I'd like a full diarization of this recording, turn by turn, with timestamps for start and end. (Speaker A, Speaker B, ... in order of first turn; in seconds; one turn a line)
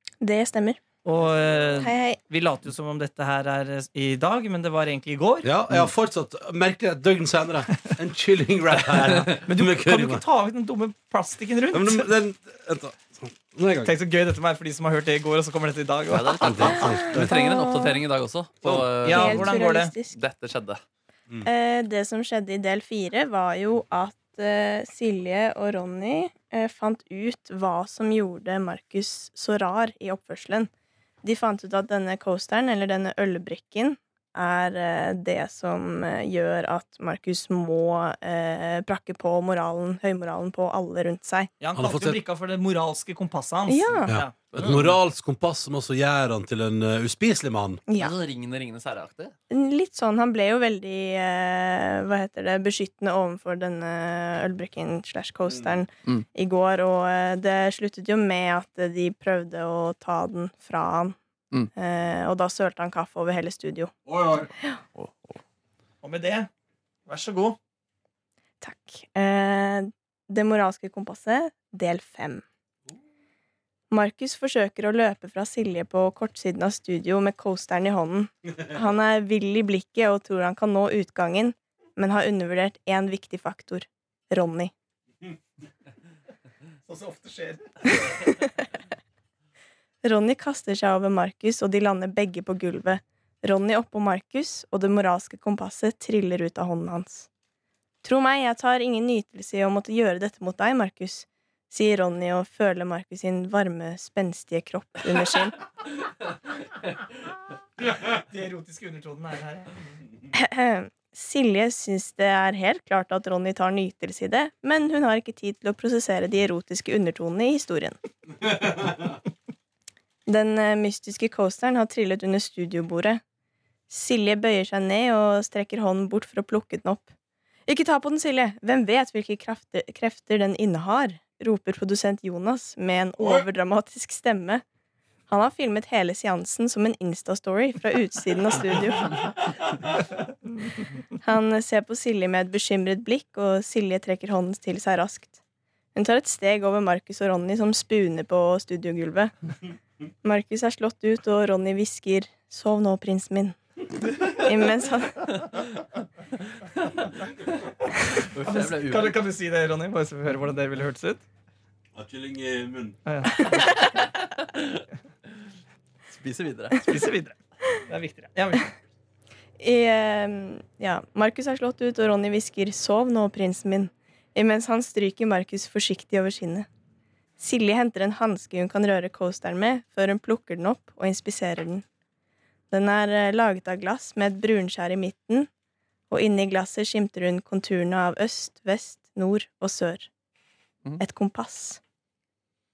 Speaker A: 0.2-0.8
Speaker B: 1.0-5.9
Speaker A: 1.8-2.2
Speaker C: 5.4-10.2
Speaker B: 9.4-12.1
Speaker C: 11.7-13.9
Speaker B: 13.8-16.8
Speaker D: 16.1-19.6
Speaker C: 16.4-17.3
Speaker A: 17.1-18.0
Speaker B: 18.6-19.9
Speaker A: 19.1-20.2
Speaker D: 20.1-20.8
Speaker A: 21.4-30.7
Speaker A: 31.2-41.5
Speaker B: 41.6-44.4
Speaker C: 41.7-42.2
Speaker A: 43.7-44.2
Speaker C: 44.1-47.8
Speaker D: 44.5-45.0
Speaker A: 47.9-48.1
Speaker D: 48.0-49.3
Speaker A: 49.5-61.1
Speaker A: 61.7-63.9
Speaker C: 64.1-64.5
Speaker A: 64.5-64.8
Speaker D: 65.0-65.3
Speaker B: 66.0-66.5
Speaker B: 67.1-67.6
Speaker A: 68.6-72.4
Speaker A: 73.9-84.7
Speaker B: 86.9-88.1
Speaker A: 88.1-88.5
Speaker A: 90.0-97.3
Speaker A: 98.0-105.6
Speaker B: 107.8-109.8
Speaker A: 110.3-118.0
Speaker A: 120.2-123.2
Speaker A: 123.9-127.1
Speaker A: 127.7-134.6
Speaker A: 135.3-139.2
Speaker A: 141.2-145.4
Speaker A: 145.9-149.3
Speaker A: 150.2-153.6
Speaker A: 154.1-155.4
Speaker D: 158.2-159.2
Speaker B: 158.4-161.2
Speaker C: 161.9-163.0
Speaker B: 163.1-163.8
Speaker D: 163.5-164.8
Speaker D: 166.1-166.9
Speaker B: 166.8-168.7
Speaker A: 169.6-176.7
Speaker A: 177.4-181.8
Speaker A: 182.7-185.5
Speaker A: 186.1-190.1
Speaker A: 191.0-191.8